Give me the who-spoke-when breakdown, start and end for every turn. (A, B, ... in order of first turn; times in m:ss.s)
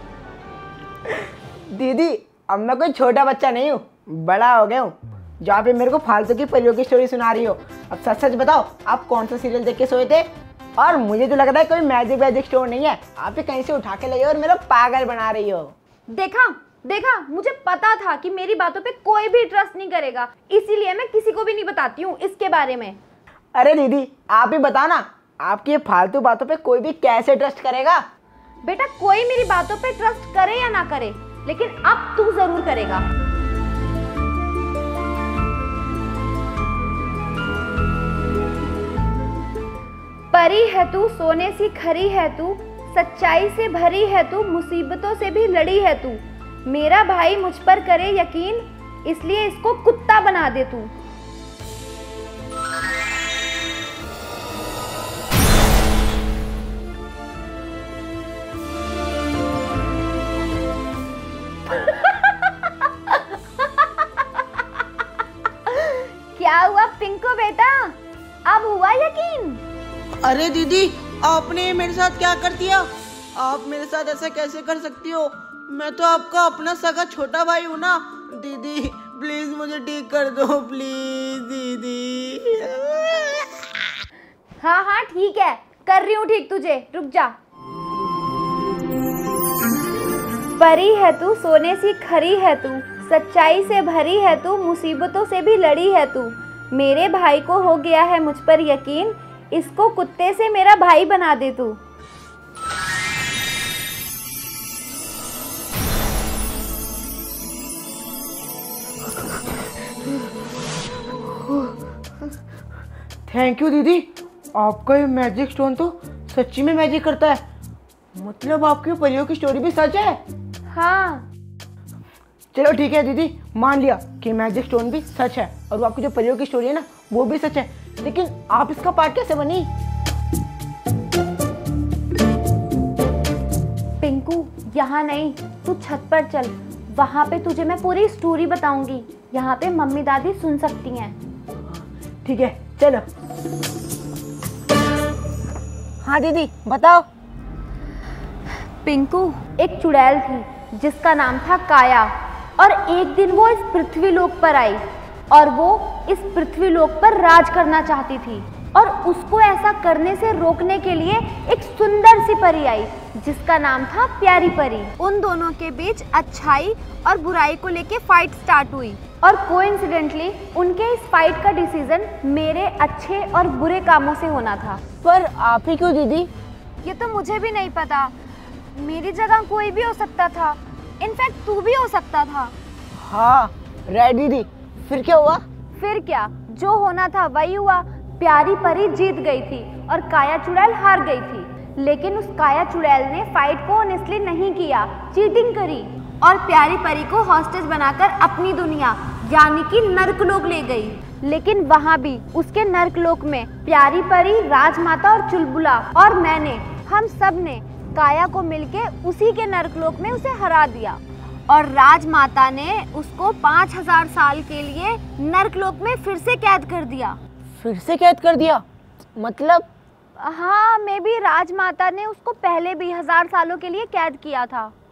0:01.1-0:15.8 A
0:16.1-0:23.0 B
0:23.5-0:28.0 A
0:28.6-0:33.0 B
0:40.3-0:50.9 B
1:05.8-1:09.6 B
1:10.2-1:23.4 A
1:24.6-1:27.4 B
1:30.6-1:41.8 B
1:51.3-1:51.7 A
1:53.3-1:57.4 A
1:58.1-2:00.2 A
2:00.7-2:01.3 B
2:02.5-2:09.7 A
2:14.0-2:21.2 B
2:21.6-2:23.0 A
2:26.0-2:27.0 A
2:28.8-2:54.8 B
2:55.0-2:56.3 A
2:56.8-2:58.1 B
2:58.8-3:02.5 B
3:03.0-3:05.4 A
3:05.8-3:37.2 B
3:37.5-3:38.6 A
3:39.2-3:39.7 A
3:40.2-3:44.7 B